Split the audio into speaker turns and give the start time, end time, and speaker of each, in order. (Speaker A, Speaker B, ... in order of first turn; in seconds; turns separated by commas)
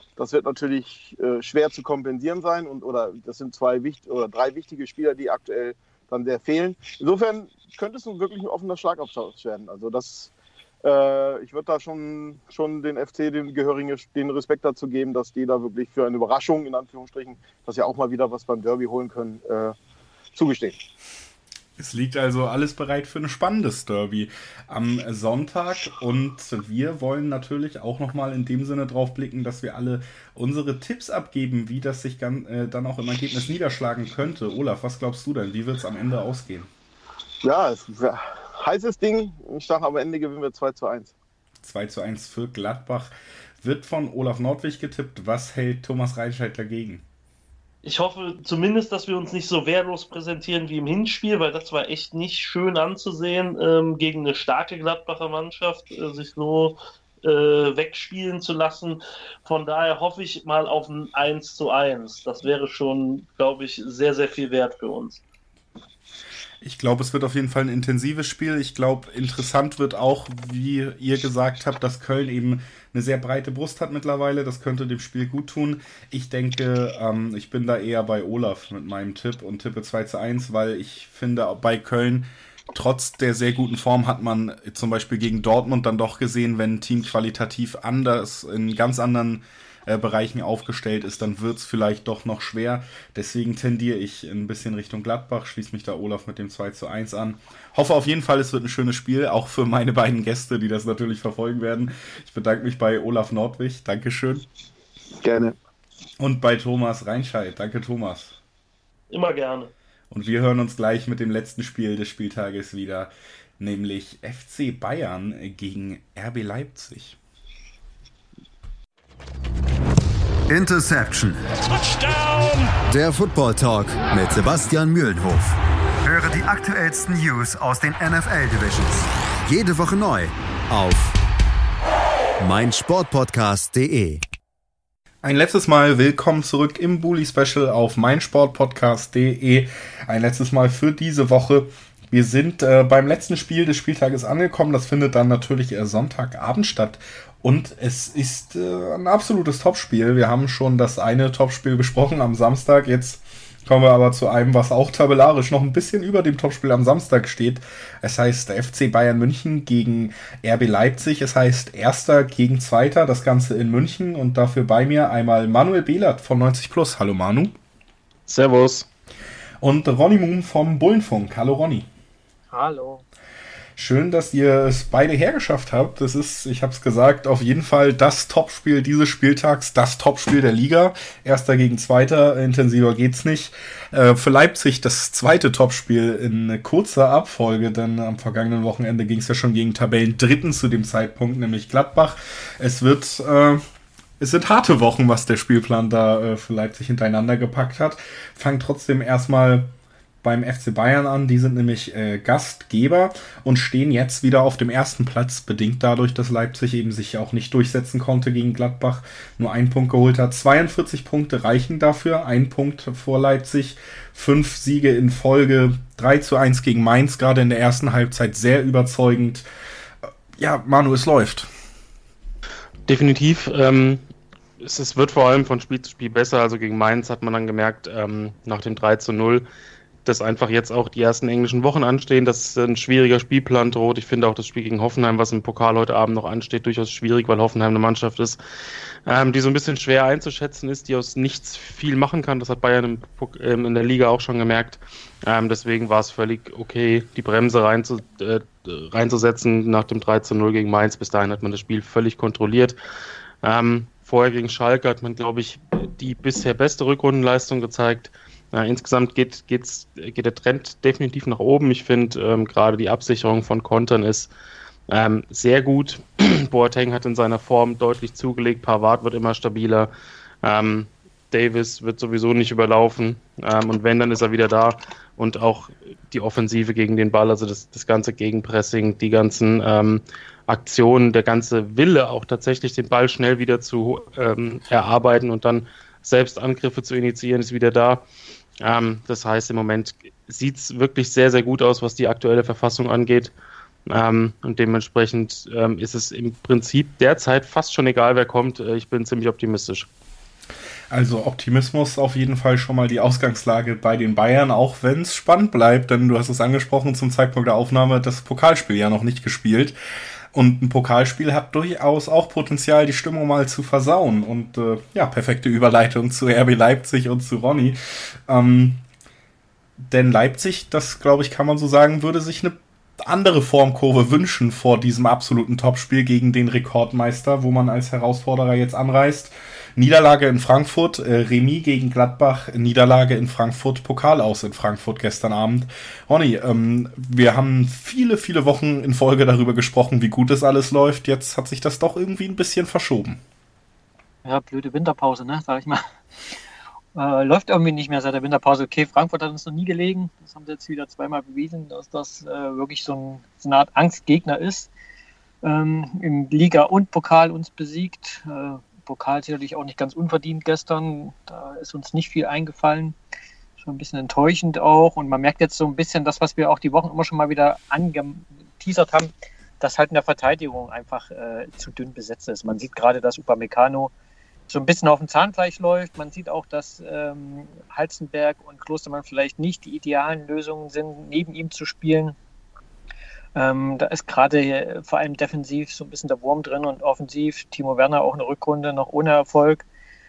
Speaker A: 0.2-10.3, Speaker A: 10.8-19.8, Speaker A: 20.3-20.8, Speaker B: 21.8-36.7, Speaker A: 37.4-41.1, Speaker B: 41.6-47.0, Speaker C: 47.8-65.2, Speaker B: 66.6-104.5, Speaker B: 106.2-108.4, Speaker C: 109.1-109.7, Speaker B: 110.1-117.2, Speaker D: 120.5-121.4, Speaker D: 122.9-131.2, Speaker D: 132.4-134.2, Speaker B: 135.2-167.6, Speaker E: 168.3-168.9, Speaker B: 169.6-171.9, Speaker F: 172.5-173.0, Speaker B: 173.8-193.6, Speaker B: 194.2-199.7, Speaker B: 200.2-219.4, Speaker B: 220.4-221.5, Speaker E: 222.9-224.0, Speaker E: 224.6-229.4, Speaker E: 230.1-238.4, Speaker E: 239.1-252.8, Speaker E: 253.4-264.3, Speaker E: 264.9-269.9, Speaker E: 270.4-288.1, Speaker E: 288.6-293.3, Speaker E: 293.9-299.9, Speaker B: 300.9-309.8, Speaker B: 310.3-318.8, Speaker B: 319.9-343.2, Speaker F: 344.2-345.9, Speaker F: 346.9-354.7, Speaker F: 355.4-362.9, Speaker F: 363.6-373.9, Speaker F: 374.5-382.2, Speaker F: 383.4-389.6